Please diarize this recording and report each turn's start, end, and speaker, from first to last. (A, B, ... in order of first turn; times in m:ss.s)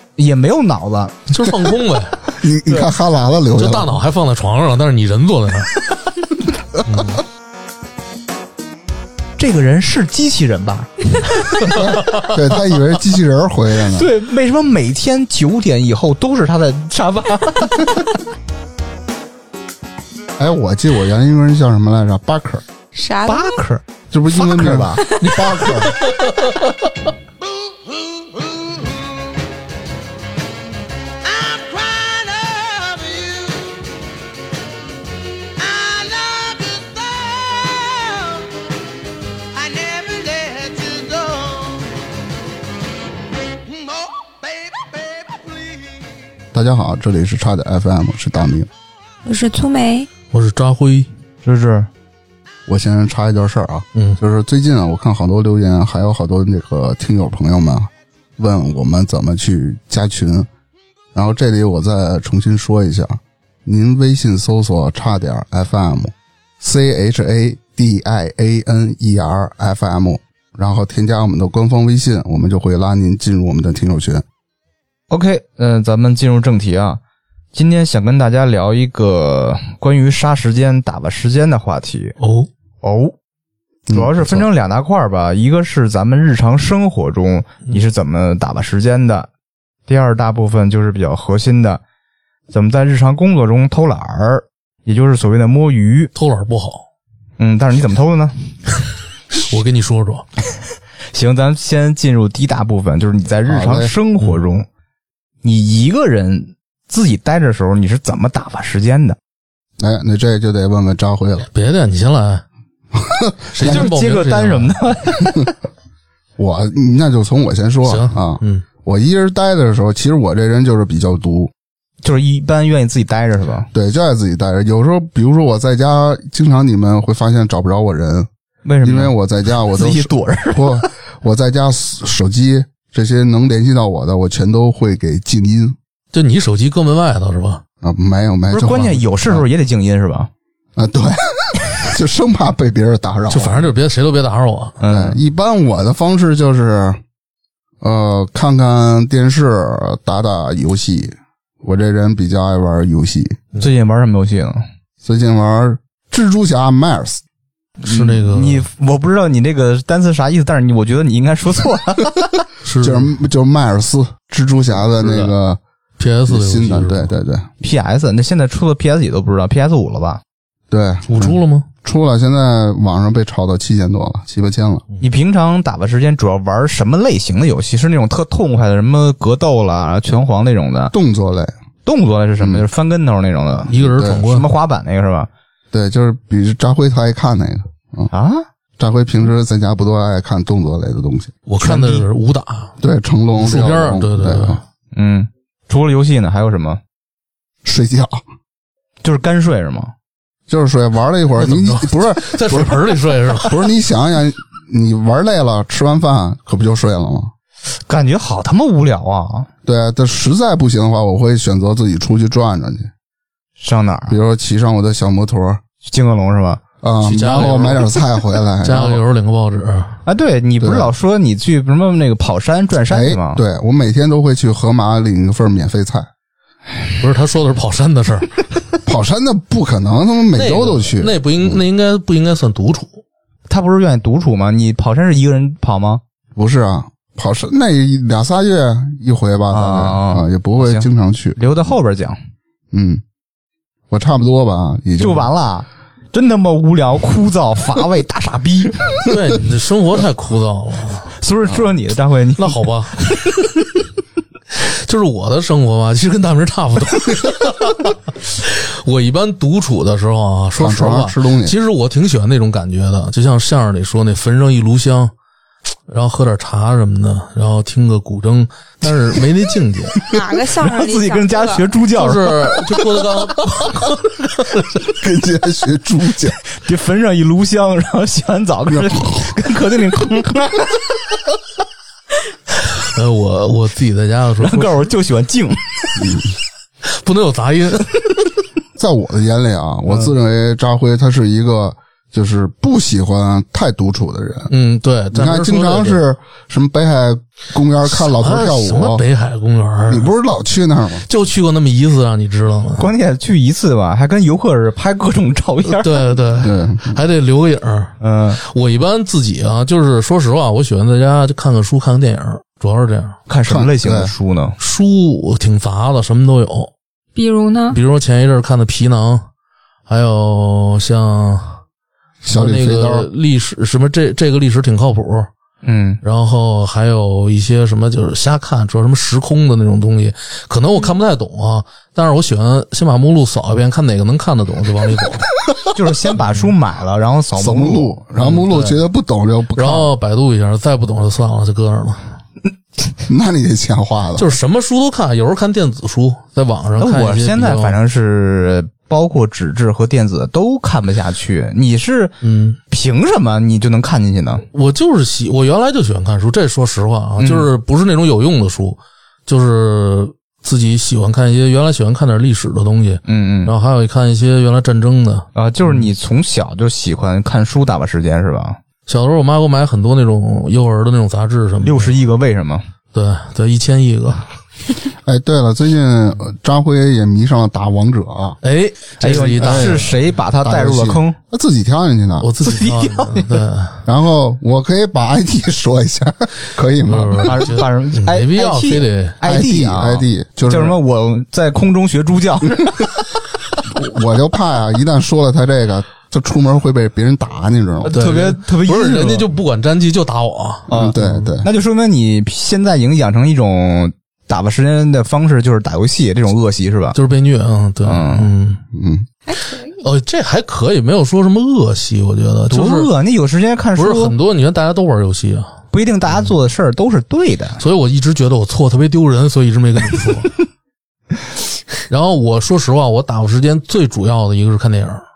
0:00.2-0:01.2 A
0:01.3-0:02.2 B
0:02.3-0:03.9 C
0:03.6-0:05.8 B
0:06.9-0:07.2 B
0:09.4-0:11.9 A
0:11.7-0:14.1 C
0:14.0-0:18.1 A
0:20.4-0:22.6 C
0:22.9-0:23.6 D
0:23.3-0:25.0 A
0:24.1-0:26.0 C
0:25.2-0:26.6 B
0:27.7-0:29.3 E
0:31.2-0:33.8 E
0:35.6-0:38.5 E
0:39.5-0:41.9 E
0:43.7-0:46.1 E
0:46.5-0:48.7 C
0:49.2-0:50.1 D
0:50.3-0:51.1 B
0:51.4-0:51.9 A
0:52.7-1:00.5 C
1:01.1-1:14.2 C
1:15.1-1:17.0 A
1:17.5-1:22.2 A
1:22.2-1:22.5 B
1:22.8-1:23.2 A
1:23.9-1:24.5 C
1:23.9-1:29.3 A
1:29.9-1:31.8 A
1:32.5-1:36.1 A
1:36.2-1:36.8 B
1:37.4-1:38.5 A
1:39.3-1:40.2 B
1:41.1-1:44.7 A
1:43.5-1:44.0 C
1:45.4-1:49.2 A
1:49.8-1:51.5 C
1:51.5-1:52.4 B
1:53.0-1:53.9 C
1:53.5-1:54.8 B
1:53.6-1:55.4 A
1:56.4-2:01.5 C
1:57.9-1:58.6 B
2:02.0-2:03.7 A
2:03.7-2:08.3 C
2:08.6-2:09.1 A
2:08.8-2:15.8 C
2:09.7-2:10.9 A
2:16.1-2:17.6 B
2:17.8-2:19.5 C
2:18.5-2:20.3 A
2:20.8-2:23.7 C
2:23.3-2:24.8 B
2:24.8-2:25.2 A
2:24.9-2:27.0 C
2:27.8-2:33.4 C
2:33.6-2:34.6 A
2:35.0-2:37.2 C
2:37.8-2:42.3 A
2:37.8-2:38.7 B
2:42.6-2:43.1 B
2:42.8-2:45.6 C
2:44.9-2:45.3 B
2:46.0-2:47.1 B
2:46.3-2:47.5 C
2:47.6-2:50.2 A
2:50.7-2:54.8 C
2:51.1-2:51.7 B
2:55.0-3:00.9 A
3:00.9-3:01.6 C
3:01.9-3:05.3 A
3:02.4-3:02.7 C
3:03.7-3:04.5 B
3:03.7-3:04.3 C
3:05.7-3:08.1 C
3:08.1-3:08.4 A
3:08.8-3:11.4 C
3:11.5-3:12.7 B
3:11.6-3:12.0 A
3:12.8-3:14.6 C
3:13.4-3:14.6 B
3:14.9-3:16.8 A
3:17.6-3:18.2 C
3:19.0-3:19.9 A
3:20.5-3:27.3 C
3:21.4-3:23.6 B
3:27.9-3:29.5 A
3:29.6-3:32.9 C
3:33.6-3:34.2 A
3:34.1-3:35.6 C
3:35.8-3:36.6 A
3:36.8-3:39.0 C
3:37.0-3:38.0 B
3:38.6-3:40.0 B
3:40.1-3:43.4 A
3:40.6-3:40.9 C
3:42.9-3:46.1 C
3:47.0-3:48.4 B
3:48.9-3:51.6 C
3:50.4-3:53.0 B
3:53.5-3:56.0 A
3:56.4-4:01.4 C
3:59.5-4:02.2 A
4:02.7-4:03.0 C
4:03.9-4:05.3 C
4:05.0-4:09.0 A
4:09.0-4:11.2 B
4:11.2-4:13.5 A
4:12.4-4:13.1 B
4:14.5-4:25.1 B
4:20.6-4:21.6 C
4:25.9-4:30.0 B
4:30.1-4:31.8 D
4:30.1-4:33.0 A
4:32.0-4:34.8 B
4:34.9-4:36.4 C
4:36.6-4:40.8 A
4:42.8-4:44.9 B
4:44.4-4:46.1 A
4:46.0-4:46.3 C
4:46.8-4:48.2 B
4:48.8-4:54.5 C
4:54.5-4:56.0 B
4:55.1-4:59.0 C
4:58.0-5:00.1 B
4:59.9-5:01.1 C
5:01.1-5:02.9 B
5:02.8-5:06.1 A
5:05.6-5:13.2 B
5:06.4-5:07.0 C
5:08.0-5:08.4 A
5:13.3-5:14.6 A
5:13.4-5:14.1 C
5:14.6-5:16.7 B
5:17.2-5:17.8 D
5:17.7-5:19.2 B
5:19.9-5:21.6 B
5:22.2-5:23.1 C
5:22.3-5:25.3 B
5:25.6-5:26.0 A
5:26.0-5:35.3 B
5:35.7-5:38.0 A
5:36.1-5:36.5 B
5:37.4-5:39.9 C
5:38.2-5:38.8 B
5:39.6-5:42.1 B
5:43.0-5:44.3 C
5:44.2-5:47.8 B
5:46.8-5:52.2 A
5:52.2-5:52.6 B
5:52.7-5:54.4 A
5:54.5-6:05.9 B
5:57.2-5:57.5 A
6:03.1-6:03.5 A
6:05.4-6:08.6 A
6:08.9-6:12.0 B
6:11.6-6:12.6 A
6:12.9-6:14.3 B
6:15.0-6:18.4 C
6:18.4-6:20.0 B
6:19.0-6:21.2 A
6:19.4-6:19.9 C
6:20.4-6:22.3 C
6:22.2-6:23.8 B
6:22.4-6:23.4 A
6:23.9-6:27.6 C
6:26.9-6:29.2 B
6:27.2-6:32.9 A
6:29.2-6:30.8 C
6:33.7-6:38.0 C
6:37.8-6:39.3 A
6:37.9-6:41.2 B
6:40.7-6:41.5 C
6:40.7-6:47.0 A
6:46.9-6:48.6 B
6:47.8-6:48.3 A
6:48.7-6:49.1 C
6:49.3-6:49.8 D
6:49.8-6:52.9 B
6:52.5-6:54.1 A
6:53.8-6:56.3 B
6:55.7-6:57.6 A
6:57.6-7:00.4 B
7:01.9-7:05.0 B